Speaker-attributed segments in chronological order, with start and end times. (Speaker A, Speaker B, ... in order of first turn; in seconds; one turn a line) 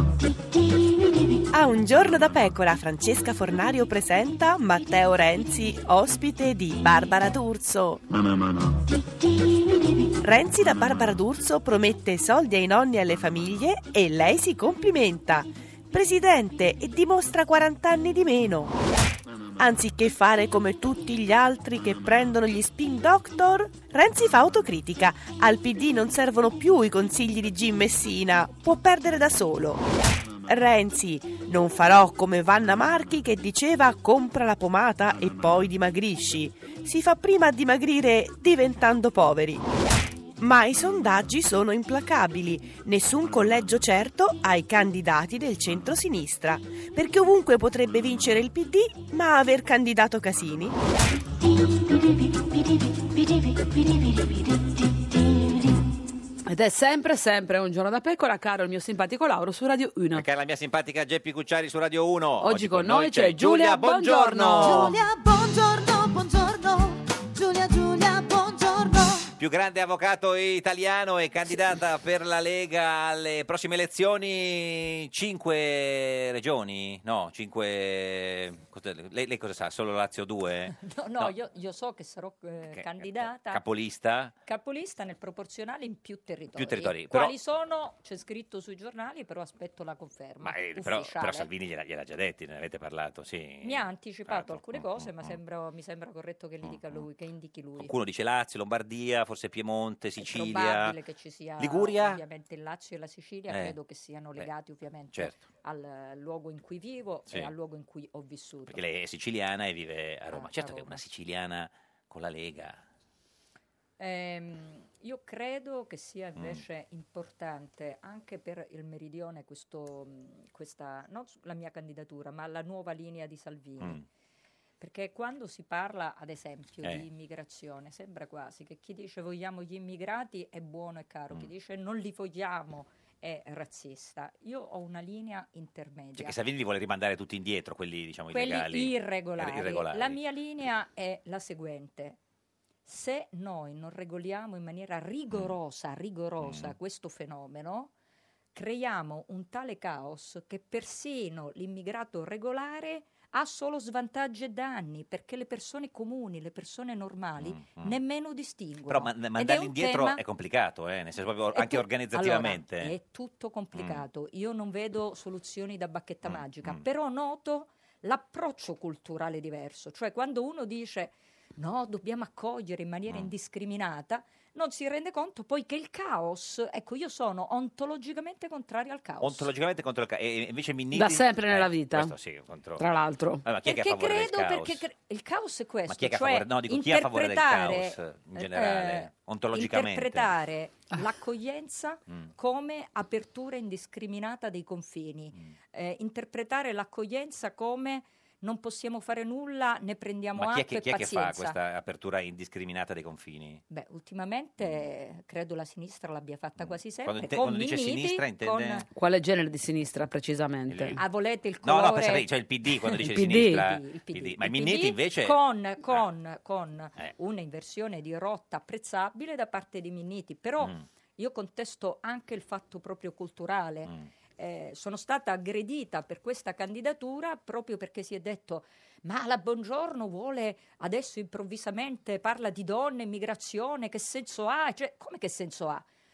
Speaker A: 1.5-8.0
Speaker A: 10.2-18.7
Speaker A: 19.6-29.9
Speaker A: 30.5-39.6
Speaker A: 40.4-50.8
Speaker B: 56.5-60.2
Speaker C: 60.1-65.0
Speaker B: 62.4-65.0
Speaker D: 64.5-69.3
Speaker C: 69.3-81.3
Speaker E: 80.7-83.6
Speaker C: 82.7-84.3
Speaker E: 84.4-91.5
Speaker C: 86.5-87.3
Speaker C: 90.4-95.4
Speaker E: 93.6-97.9
Speaker C: 96.6-97.0
Speaker C: 97.8-101.0
Speaker E: 100.2-108.8
Speaker C: 101.6-102.2
Speaker C: 103.5-103.8
Speaker C: 105.1-105.4
Speaker C: 108.7-112.8
Speaker E: 110.3-111.0
Speaker E: 114.0-124.0
Speaker C: 116.4-116.6
Speaker E: 124.8-136.3
Speaker C: 136.1-140.2
Speaker E: 138.3-142.2
Speaker E: 142.8-147.9
Speaker C: 146.4-146.7
Speaker E: 148.5-160.2
Speaker C: 157.4-157.9
Speaker C: 158.9-162.9
Speaker E: 161.5-179.5
Speaker C: 163.7-164.0
Speaker C: 166.2-166.8
Speaker C: 179.2-182.8
Speaker B: 180.9-182.1
Speaker B: 182.8-183.4
Speaker C: 183.4-184.8
Speaker E: 183.6-201.6
Speaker C: 185.9-190.3
Speaker C: 200.3-203.6
Speaker E: 203.7-208.9
Speaker C: 206.6-208.8
Speaker B: 208.9-211.0
Speaker C: 210.7-211.0
Speaker E: 210.9-212.3
Speaker C: 211.6-215.4
Speaker E: 212.8-235.8
Speaker B: 213.0-213.7